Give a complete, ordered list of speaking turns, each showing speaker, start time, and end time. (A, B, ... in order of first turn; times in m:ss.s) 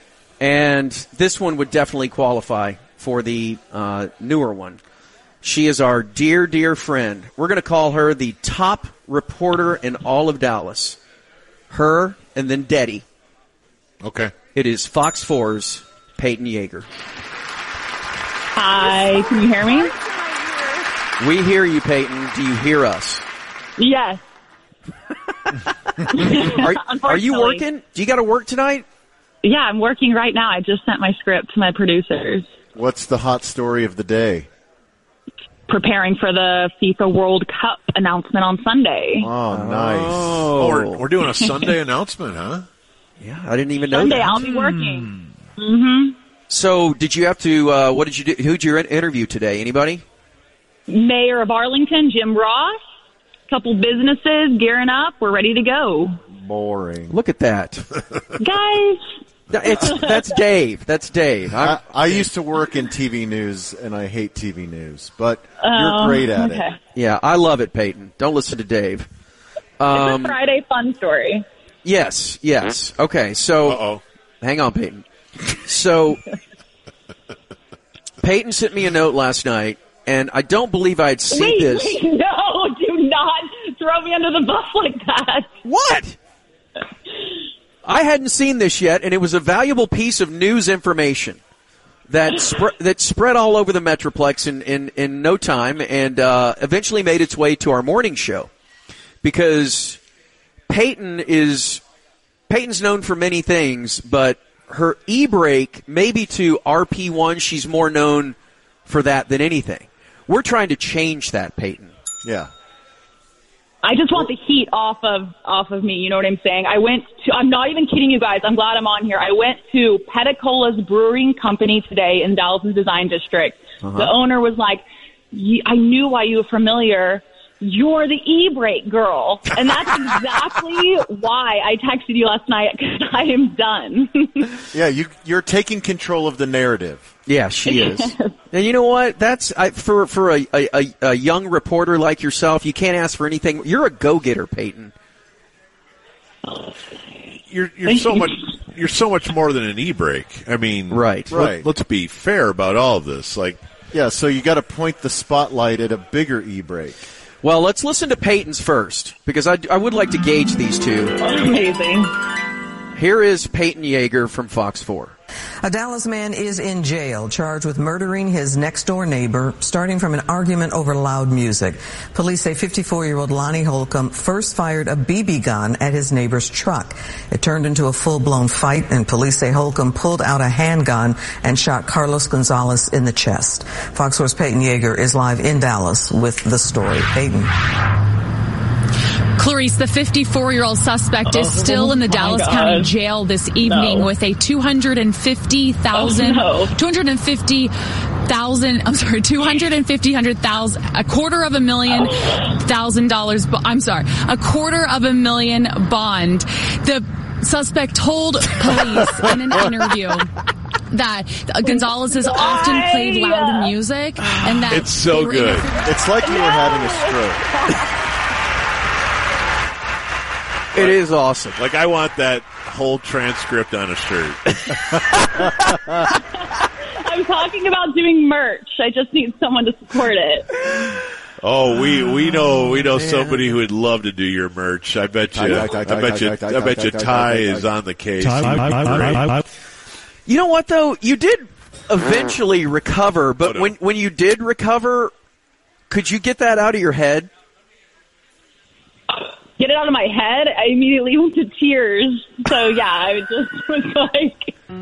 0:00.4-0:04.8 A
0:05.4-0:11.0 A
0:11.7-0:13.0 A
0:14.0-0:14.3 B
0:14.5-0:16.9 A
0:18.6-0:19.9 C
0:21.2-0:23.2 A
0:23.8-0:24.2 C
0:25.5-0:28.8 A
0:26.1-0:27.6 C
0:29.4-0:32.5 C
0:32.7-0:34.5 D
0:35.7-0:39.3 C
0:39.2-0:40.1 D
0:39.5-0:41.0 A
0:40.2-0:42.7 B
0:43.2-0:44.4 A
0:43.9-0:46.2 C
0:46.5-0:50.0 A
0:50.9-0:52.7 C
0:53.5-0:56.2 C
0:56.3-0:57.1 D
0:57.1-0:57.9 A
0:58.4-0:59.0 C
0:59.5-1:02.3 A
0:59.8-1:00.2 C
1:01.6-1:06.6 D
1:05.6-1:06.8 C
1:07.0-1:09.1 A
1:09.8-1:10.4 A
1:09.9-1:11.5 C
1:11.8-1:13.8 A
1:13.6-1:14.0 B
1:14.4-1:16.2 A
1:18.2-1:22.0 A
1:21.3-1:25.5 C
1:25.6-1:26.2 A
1:27.8-1:31.4 A
1:32.1-1:38.5 A
1:39.2-1:40.0 A
1:40.7-1:41.8 A
1:42.5-1:51.9 A
1:52.2-1:52.5 D
1:53.8-2:04.8 C
2:03.8-2:04.1 A
2:05.3-2:14.5 C
2:14.7-2:17.0 D
2:17.3-2:24.9 A
2:17.7-2:18.3 C
2:27.5-2:33.6 B
2:27.9-2:28.2 C
2:30.9-2:31.3 A
2:33.9-2:37.0 D
2:37.4-2:41.1 A
2:41.2-2:42.1 C
2:43.0-2:45.2 A
2:45.6-3:07.5 E
3:09.4-3:17.7 F
3:11.3-3:12.9 C
3:13.7-3:14.1 C
3:15.9-3:16.7 C
3:18.3-3:30.3 F
3:30.9-3:36.0 F
3:31.6-3:33.7 C
3:34.2-3:34.8 A
3:34.7-3:35.7 B
3:35.9-3:37.4 D
3:36.0-3:37.9 C
3:40.7-3:41.6 A
3:41.6-3:45.1 B
3:47.0-3:50.6 C
3:51.4-3:59.4 B
3:52.8-3:53.5 A
3:55.4-3:57.6 D
4:00.3-4:05.1 A
4:03.4-4:03.7 B
4:05.9-4:07.3 A
4:09.1-4:14.6 C